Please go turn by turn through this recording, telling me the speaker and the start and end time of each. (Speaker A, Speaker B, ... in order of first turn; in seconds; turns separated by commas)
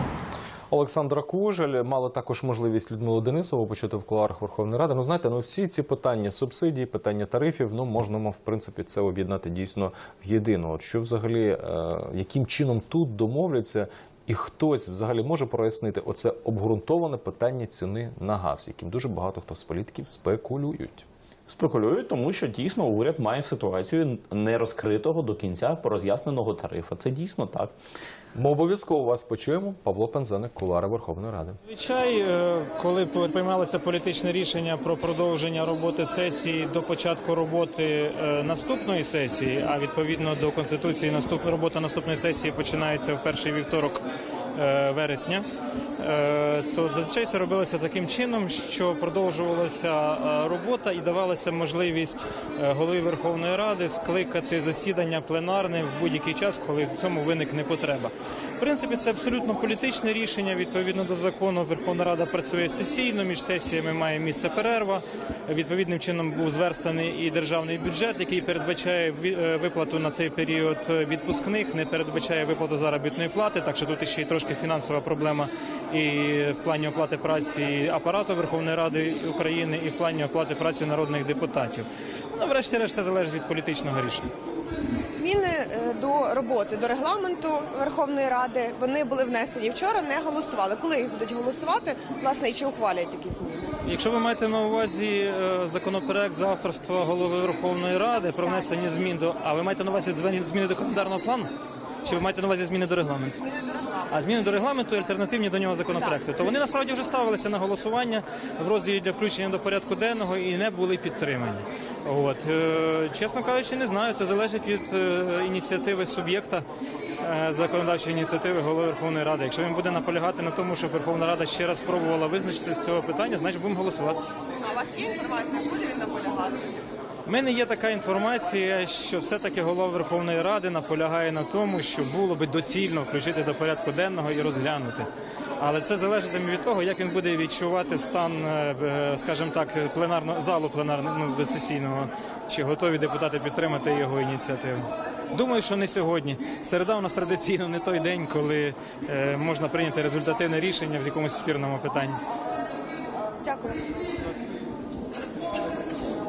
Speaker A: 0.7-21.1, Speaker B: 21.5-27.7, Speaker A: 28.3-31.6, Speaker C: 31.6-44.0, Speaker C: 44.5-45.4, Speaker C: 46.0-84.3, Speaker D: 85.1-93.7, Speaker C: 93.8-101.5, Speaker C: 102.0-103.4, Speaker C: 104.1-116.6, Speaker C: 117.2-124.2, Speaker D: 124.6-126.7, Speaker C: 127.2-135.1, Speaker C: 135.6-152.2, Speaker D: 153.4-153.8